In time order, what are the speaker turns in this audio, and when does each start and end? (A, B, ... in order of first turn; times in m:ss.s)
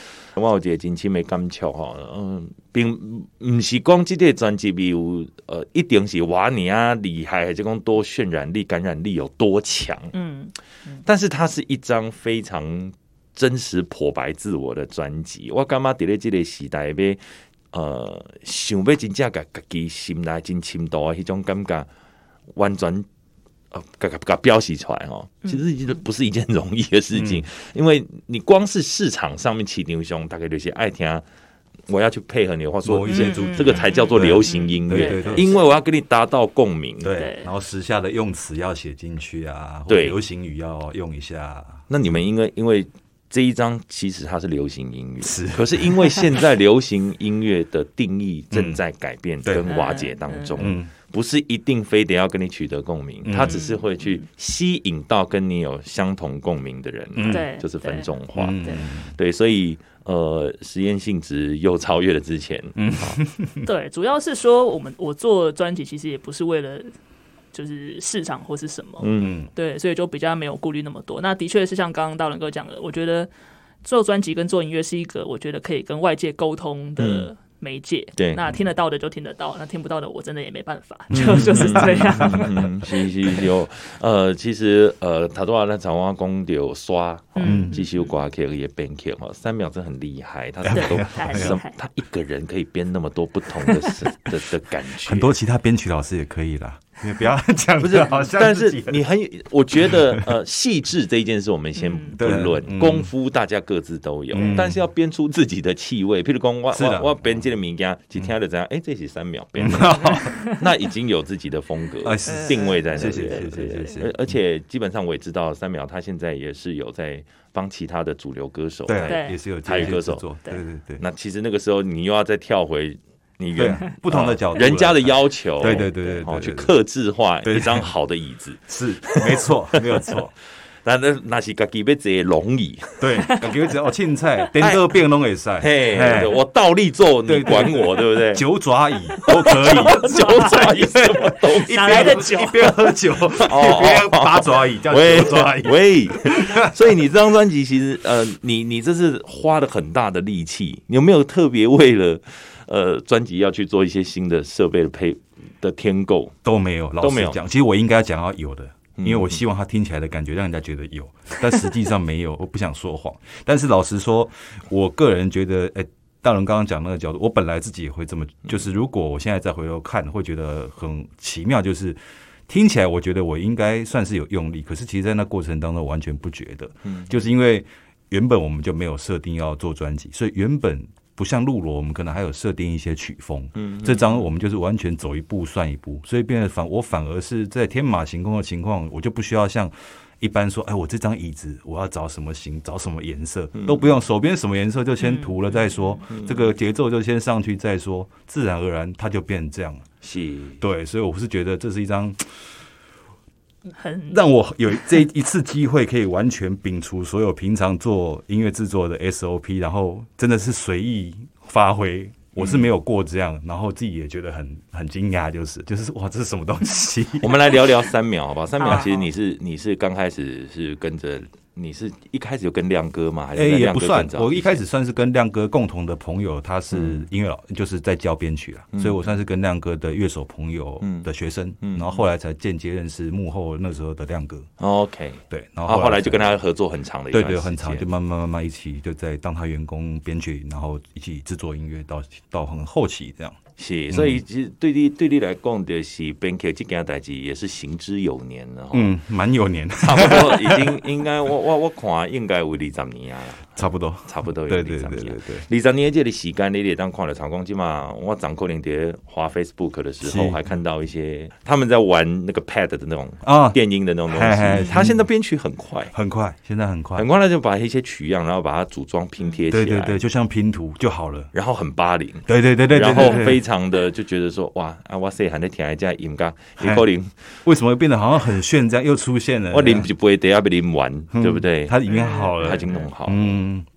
0:00.3-0:10.1 A
0:10.1-0:11.0 B
0:11.1-0:17.2 A
0:17.7-0:21.9 A
0:22.5-0:23.1 A
0:23.7-0:31.2 A
0:27.2-0:27.4 C
0:31.9-0:37.1 A
0:32.8-0:35.6 C
0:33.1-0:35.6 B
0:37.0-0:41.8 C
0:37.2-0:37.5 B
0:39.9-0:40.2 A
0:41.9-1:03.2 A
0:45.2-0:46.0 C
0:48.5-0:48.8 C
0:49.4-0:49.7 C
0:49.7-0:50.7 B
0:50.6-0:50.9 C
0:53.2-0:53.6 C
0:53.4-0:54.2 B
0:57.2-0:57.5 C
0:57.3-0:58.1 B
0:58.4-0:59.1 C
1:02.8-1:03.7 C
1:03.6-1:06.9 B
1:07.5-1:13.3 B
1:09.0-1:09.4 A
1:09.2-1:09.5 C
1:13.8-1:22.6 B
1:17.0-1:17.3 A
1:18.2-1:18.5 A
1:21.1-1:22.6 C
1:21.1-1:35.3 A
1:27.4-1:28.1 B
1:27.4-1:27.8 C
1:30.6-1:31.6 C
1:30.7-1:31.7 B
1:35.0-1:39.0 C
1:37.8-2:00.2 A
1:39.9-1:40.3 C
1:41.8-1:42.2 B
1:42.2-1:43.1 C
1:44.3-1:44.8 C
1:44.4-1:44.6 B
1:46.7-1:47.4 C
1:49.6-1:50.4 C
1:50.3-1:50.6 B
1:52.0-1:54.1 C
1:52.3-1:54.1 B
1:58.9-2:01.0 C
1:59.1-1:59.4 B
2:01.0-2:10.3 A
2:03.6-2:06.8 C
2:07.4-2:07.9 C
2:08.7-2:10.3 C
2:10.8-2:13.0 A
2:13.0-2:16.4 C
2:14.6-2:14.9 A
2:15.6-2:18.4 A
2:17.3-2:26.8 C
2:19.4-2:22.3 A
2:19.5-2:22.9 B
2:23.4-2:36.4 A
2:36.4-3:19.8 C
2:37.0-2:37.4 A
2:39.0-2:39.4 A
2:56.8-2:57.1 A
3:03.6-3:04.3 A
3:13.6-3:13.9 A
3:15.0-3:16.0 B
3:16.1-3:16.5 A
3:20.0-3:20.6 A
3:20.6-3:22.2 C
3:23.7-3:24.2 B
3:24.1-3:37.6 C
3:32.4-3:32.7 A
3:37.2-3:44.6 A
3:38.6-3:39.0 B
3:43.4-3:54.5 C
3:46.7-3:47.0 A
3:48.7-3:49.0 A
3:50.8-3:51.1 A
3:51.6-3:52.0 A
3:54.6-3:57.9 A
3:55.3-3:56.3 C
3:57.1-4:03.4 C
4:03.6-4:08.9 A
4:03.9-4:04.2 C
4:08.7-4:10.8 C
4:09.8-4:25.9 A
4:13.6-4:15.5 C
4:20.0-4:20.4 C
4:23.2-4:25.0 C
4:25.9-4:27.1 C
4:27.0-4:30.0 A
4:29.5-4:31.3 C
4:31.3-4:37.1 A
4:32.3-4:33.4 C
4:36.6-4:36.8 C
4:37.4-4:39.9 C
4:39.5-4:43.4 A
4:41.1-4:43.7 C
4:41.9-4:42.9 B